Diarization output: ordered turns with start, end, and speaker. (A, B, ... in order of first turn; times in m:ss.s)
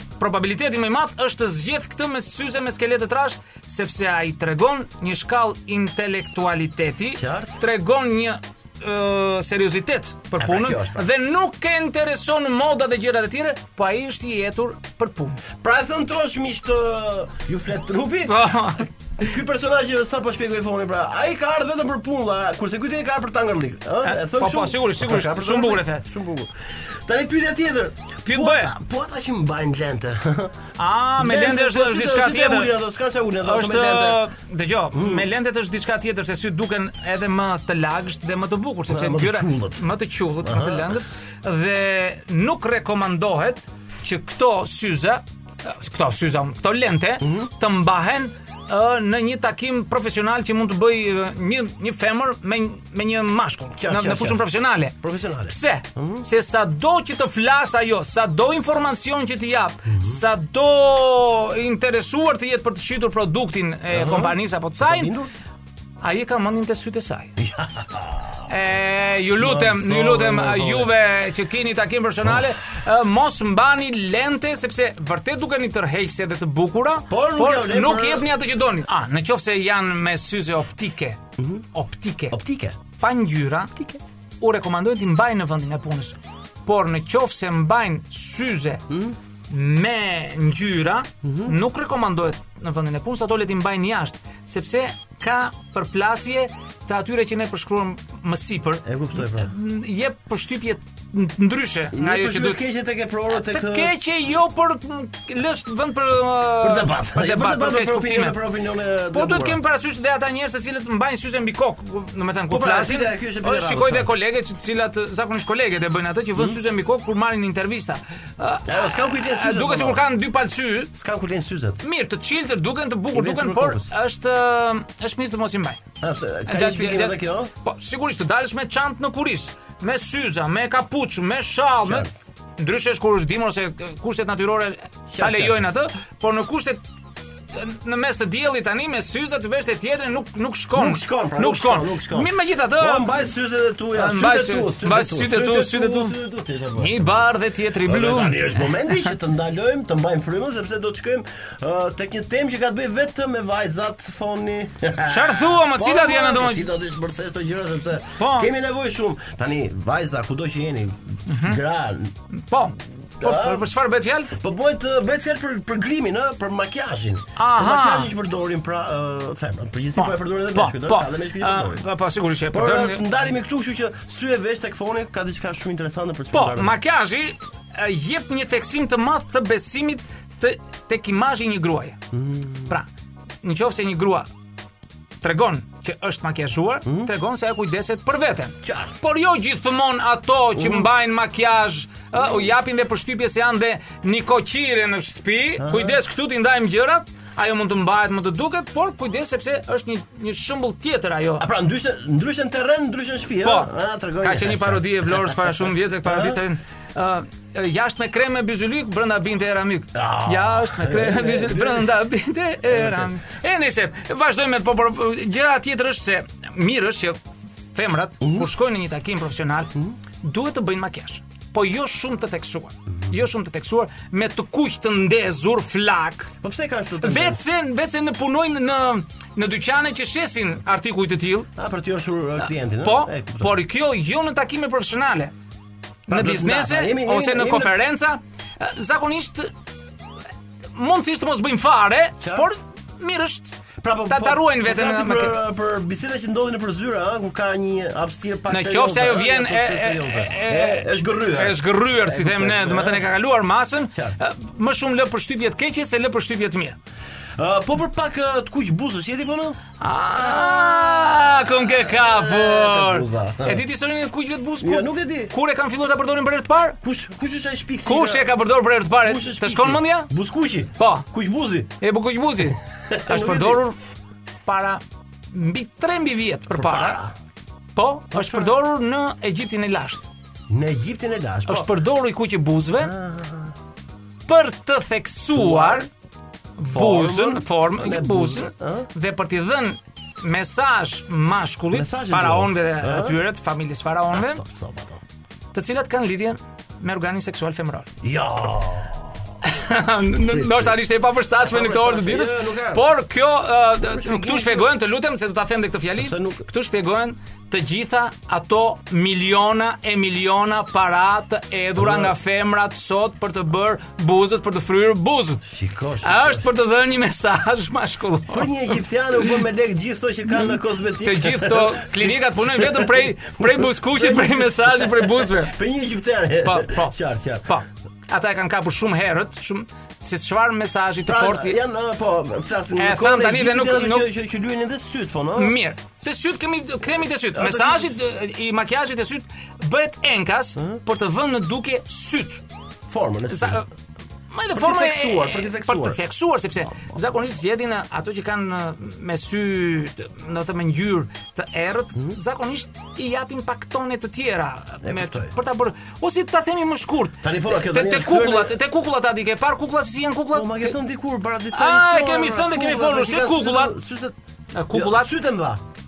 0:00.2-0:15.4 A
0:07.1-0:07.6 B
0:10.4-0:11.1 B
0:15.6-0:30.6 B
0:18.3-0:18.9 A
0:24.0-0:26.0 A
0:28.2-0:28.7 A
0:30.8-0:32.7 A
0:31.2-0:34.2 B
0:33.4-1:05.1 A
0:34.9-0:35.3 B
0:38.9-0:39.8 B
0:40.4-0:41.0 B
0:47.2-0:47.5 B
0:53.8-0:54.4 B
0:55.0-0:56.2 B
0:59.8-1:00.2 B
1:03.9-1:05.3 B
1:06.0-1:07.3 A
1:07.4-1:08.5 B
1:08.5-1:21.2 A
1:09.2-1:10.9 B
1:17.1-1:18.3 B
1:21.4-1:21.6 B
1:21.7-1:22.4 A
1:22.3-1:22.8 B
1:23.0-1:28.8 A
1:28.9-1:29.2 B
1:29.5-1:42.6 A
1:31.2-1:31.6 B
1:38.8-1:39.5 B
1:41.9-1:43.9 B
1:43.3-1:48.4 A
1:46.6-1:49.6 B
1:49.1-2:00.9 A
1:52.5-1:54.1 B
1:58.7-2:00.0 B
2:00.9-2:01.8 B
2:01.8-2:05.8 A
2:03.1-2:03.9 B
2:06.0-2:07.5 B
2:06.5-2:16.8 A
2:11.8-2:12.1 B
2:15.1-2:15.7 B
2:17.5-2:23.1 A
2:20.7-2:27.2 B
2:23.9-2:26.2 A
2:26.7-2:29.0 A
2:27.8-2:42.1 B
2:35.0-2:36.7 A
2:38.2-2:38.5 A
2:41.3-2:41.6 A
2:42.4-2:44.4 A
2:43.2-2:43.8 B
2:44.3-2:51.8 B
2:47.4-2:48.1 A
2:49.9-2:53.0 A
2:52.5-2:56.7 B
2:56.3-3:02.0 A
3:02.1-3:02.7 B
3:03.4-3:04.3 A
3:05.2-3:21.4 A
3:06.8-3:07.1 B
3:08.6-3:08.9 B
3:10.5-3:10.9 B
3:15.6-3:16.0 B
3:21.4-3:26.4 B
3:23.4-3:37.2 A
3:29.9-3:32.0 B
3:32.6-3:33.1 B
3:37.7-3:46.3 A
3:38.2-3:38.5 B
3:46.4-3:47.4 B
3:47.0-3:51.5 A
3:51.6-3:53.6 B
3:52.8-3:55.3 A
3:56.1-3:57.8 B
3:56.1-3:59.5 A
4:00.7-4:03.6 A
4:02.2-4:02.5 B
4:03.8-4:13.1 B
4:04.1-4:05.4 A
4:08.5-4:16.8 A
4:13.9-4:14.2 B
4:17.4-4:19.6 B
4:19.8-4:26.8 A
4:20.1-4:23.6 B
4:24.6-4:25.3 B
4:26.8-4:28.3 B
4:27.8-4:30.1 A
4:29.0-4:31.7 B
4:30.8-4:31.0 A
4:31.8-4:33.8 A
4:32.9-4:33.6 B
4:34.4-4:37.0 A
4:36.5-4:37.1 B
4:37.7-4:40.1 A
4:38.1-4:38.6 B
4:40.5-4:41.8 B
4:41.5-4:42.9 A
4:42.8-4:43.5 B
4:44.3-4:45.9 A
4:45.3-4:45.8 B
4:46.6-4:54.4 A
4:46.7-4:48.9 B
4:51.7-4:53.2 B
4:54.1-4:55.0 B
4:55.5-4:57.9 A
4:58.0-4:59.1 B
4:59.4-5:15.4 A
5:00.1-5:00.8 B
5:01.4-5:02.9 B
5:03.8-5:04.7 B
5:05.9-5:06.5 B
5:11.8-5:12.1 B
5:15.4-5:16.5 B
5:16.0-5:19.4 A
5:18.3-5:27.5 B
5:20.3-5:25.6 A
5:26.4-5:31.6 A
5:31.1-5:35.6 B
5:32.8-5:34.1 A
5:35.3-5:42.4 A
5:37.3-5:37.9 B
5:42.9-5:43.6 B
5:43.3-5:43.6 A
5:44.3-6:00.8 A
5:44.5-5:46.0 B
5:46.6-5:47.0 B
5:54.8-5:55.3 B
5:57.2-5:58.5 B
6:00.3-6:04.1 B
6:01.5-6:03.7 A
6:04.5-6:05.1 A
6:04.7-6:05.6 B